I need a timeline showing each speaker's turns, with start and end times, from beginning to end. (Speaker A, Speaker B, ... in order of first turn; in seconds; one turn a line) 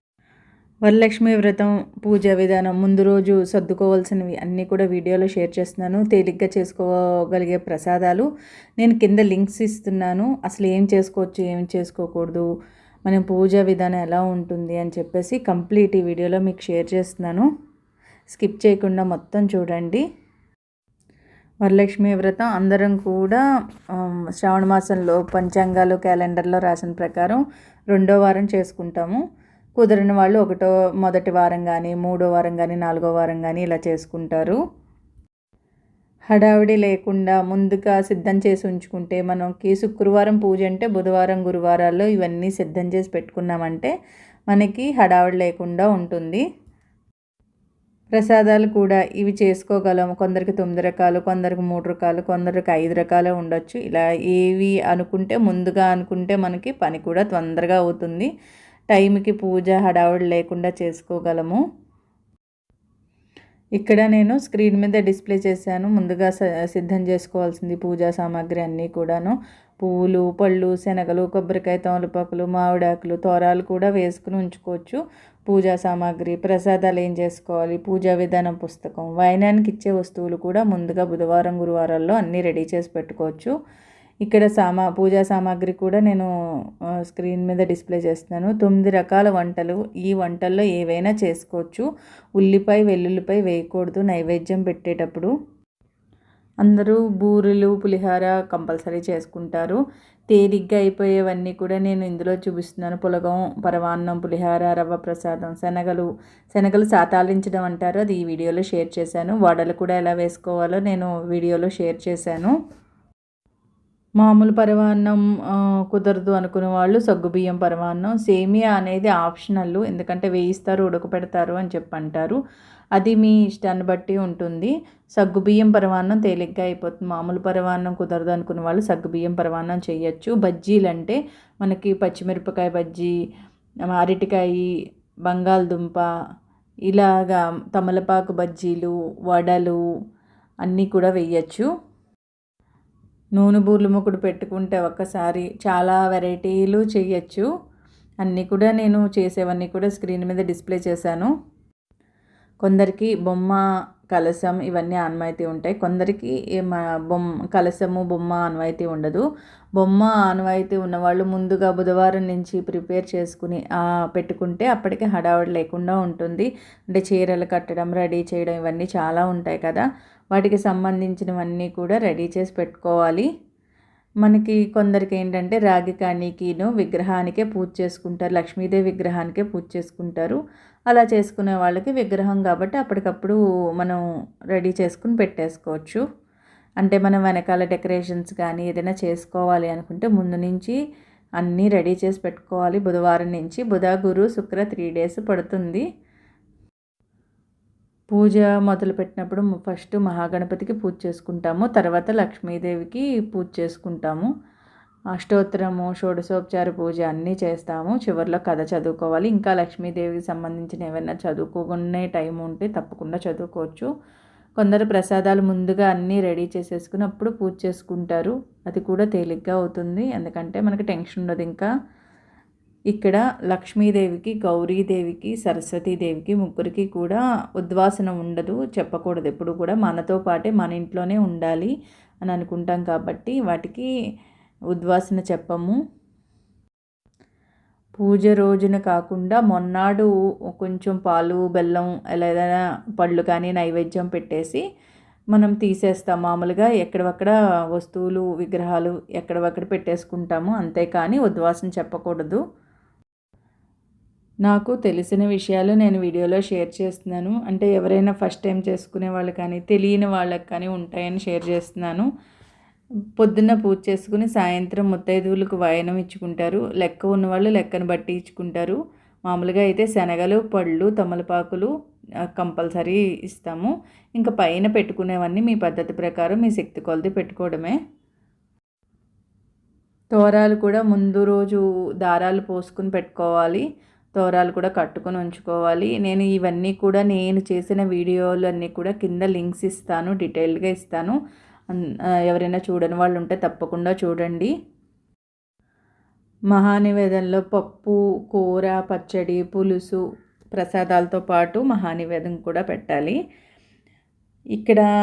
Speaker A: 0.8-8.2
Speaker A: 8.8-12.4
Speaker A: 13.1-17.4
Speaker A: 18.3-20.0
Speaker A: 21.6-23.4
Speaker A: 23.9-27.4
Speaker A: 27.9-29.2
Speaker A: 29.8-34.6
Speaker A: 36.3-43.9
Speaker A: 44.5-46.4
Speaker A: 48.1-58.3
Speaker A: 58.9-61.6
Speaker A: 63.8-83.5
Speaker A: 84.2-86.2
Speaker A: 87.1-91.8
Speaker A: 92.4-95.3
Speaker A: 96.6-99.8
Speaker A: 100.3-112.5
Speaker A: 114.2-115.2
Speaker A: 115.9-122.4
Speaker A: 123.0-133.1
Speaker A: 134.0-134.7
Speaker A: 135.2-136.1
Speaker A: 136.9-139.8
Speaker A: 140.6-141.7
Speaker A: 143.4-147.4
Speaker A: 148.2-151.3
Speaker A: 152.6-153.6
Speaker A: 154.1-159.2
Speaker A: 159.8-173.3
Speaker A: 174.2-180.4
Speaker A: 180.9-184.0
Speaker A: 184.5-186.0
Speaker A: 186.8-190.8
Speaker A: 191.4-195.8
Speaker A: 198.1-204.3
Speaker A: 205.1-213.9
Speaker A: 214.6-221.7
Speaker A: 222.9-231.7
Speaker A: 232.2-233.9
Speaker A: 234.7-235.8
Speaker A: 238.0-244.6
Speaker A: 245.3-252.4
Speaker A: 254.4-262.1
Speaker A: 263.2-271.7
Speaker A: 272.4-277.8
Speaker A: 280.1-283.6
Speaker A: 284.1-291.1
Speaker A: 291.7-294.5
Speaker A: 296.5-300.0
Speaker A: 300.6-303.2
Speaker A: 304.6-304.9